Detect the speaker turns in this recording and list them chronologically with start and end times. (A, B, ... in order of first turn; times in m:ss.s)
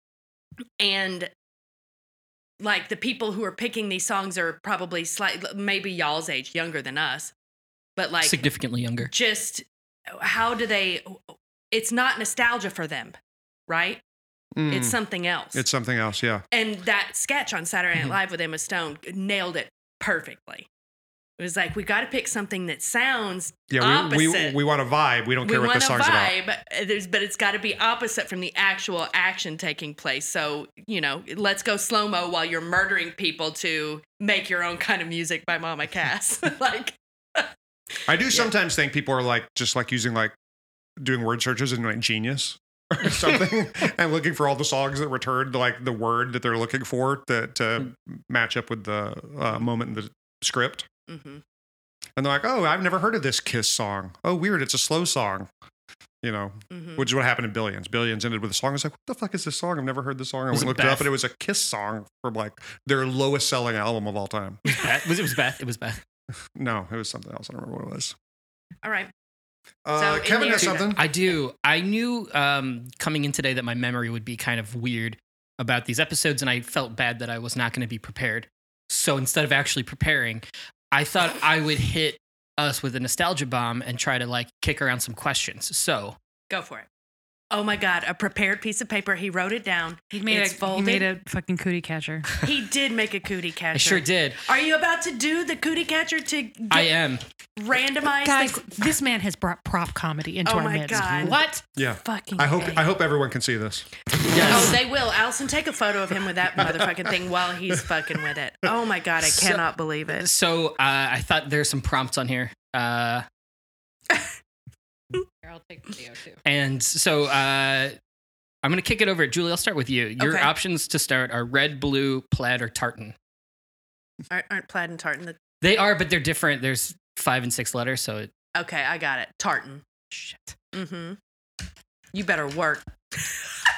0:00.8-0:01.3 A
0:02.6-0:07.3 A
0:08.0-0:08.4 A
0:08.2-0:09.1 B
0:09.1-0:13.2 A
0:13.7-0:14.0 A
0:14.6-0:15.0 C
0:14.7-0:15.6 A
0:15.5-0:16.4 C
0:16.5-0:20.7 A
0:21.4-0:24.6 A
0:23.7-0:26.3 C
0:25.4-0:37.5 A
0:38.1-0:40.3 C
0:41.0-0:50.9 C
0:51.1-0:51.4 A
0:52.2-0:55.5 C
0:56.2-1:04.6 C
0:56.7-0:57.1 A
1:00.5-1:01.1 B
1:04.7-1:06.0 B
1:06.6-1:08.2 C
1:08.8-1:09.1 A
1:09.8-1:11.0 C
1:09.9-1:11.0 A
1:10.9-1:26.2 B
1:26.5-1:26.9 A
1:27.5-1:31.1 A
1:30.1-1:32.3 D
1:32.4-1:36.9 A
1:33.7-1:34.4 B
1:36.7-1:37.2 B
1:37.6-1:38.6 A
1:38.2-1:41.6 D
1:40.4-1:41.4 A
1:41.8-1:43.9 C
1:42.0-1:42.9 A
1:44.3-1:44.8 B
1:44.4-1:50.3 A
1:46.6-1:47.1 C
1:49.2-1:53.3 B
1:55.4-1:56.4 D
1:56.4-1:58.0 B
1:58.6-2:03.2 B
2:00.2-2:00.5 A
2:04.3-2:05.4 A
2:05.6-2:08.3 B
2:08.6-2:09.9 A
2:10.7-2:11.2 A
2:12.1-2:13.4 A